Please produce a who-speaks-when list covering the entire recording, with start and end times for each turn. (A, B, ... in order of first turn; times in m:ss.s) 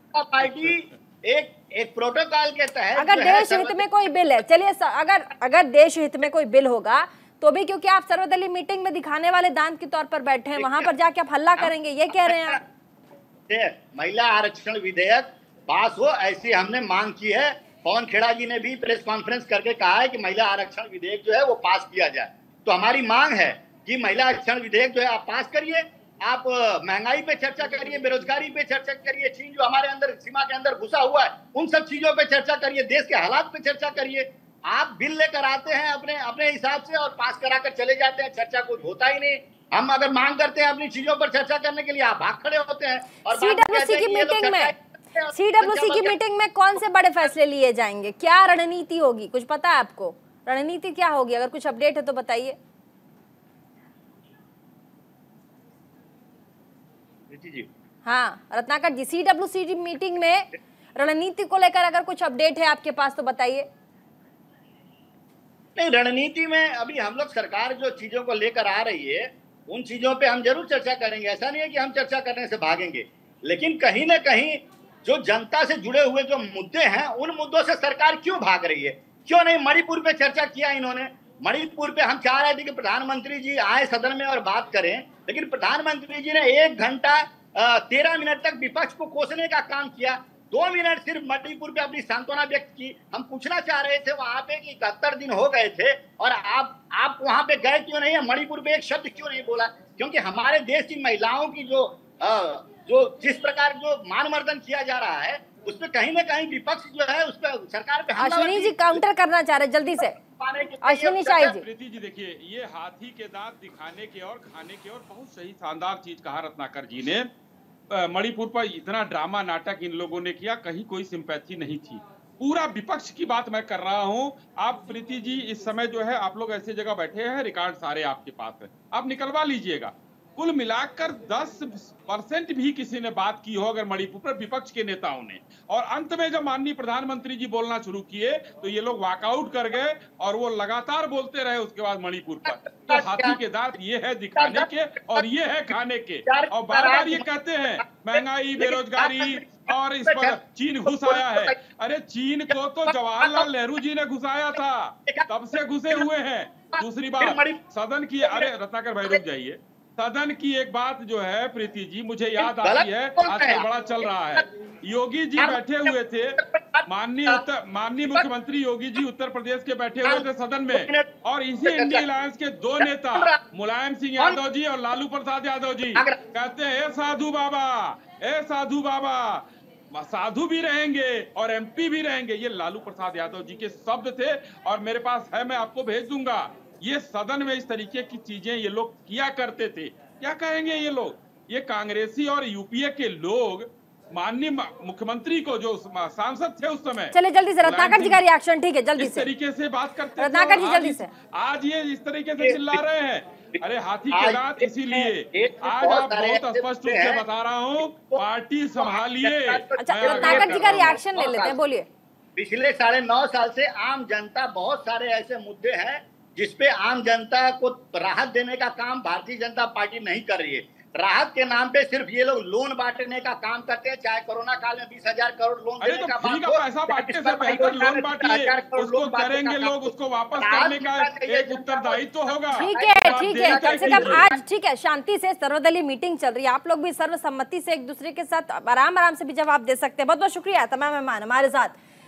0:00.1-0:03.8 A
0:03.0-0:12.6 B
0:10.6-0:10.9 A
0:11.6-0:12.6 A
0:13.5-0:46.1 A
0:43.3-0:44.7 B
0:45.3-0:52.6 B
0:57.3-0:57.7 A
0:58.0-1:03.7 B
1:05.8-1:49.0 A
1:48.2-1:50.1 B
1:50.0-1:51.6 A
1:50.8-1:51.6 B
1:51.5-1:57.3 C
1:57.9-3:18.2 C
2:22.4-2:23.4 A
2:24.4-2:25.2 A
2:26.2-2:31.5 A
2:32.5-2:33.5 A
2:36.8-2:37.6 A
2:38.2-2:38.5 A
2:42.4-2:44.4 A
2:45.4-2:47.4 A
2:50.0-2:51.1 A
2:51.6-2:52.0 A
2:52.8-2:53.4 A
3:17.1-3:19.3 B
3:19.0-3:31.0 C
3:20.2-3:21.1 B
3:22.4-3:22.8 A
3:24.1-3:27.2 A
3:27.8-3:28.2 A
3:28.8-3:31.6 A
3:29.8-3:31.9 B
3:32.4-3:54.4 A
3:45.8-3:54.3 C
3:52.6-4:01.8 B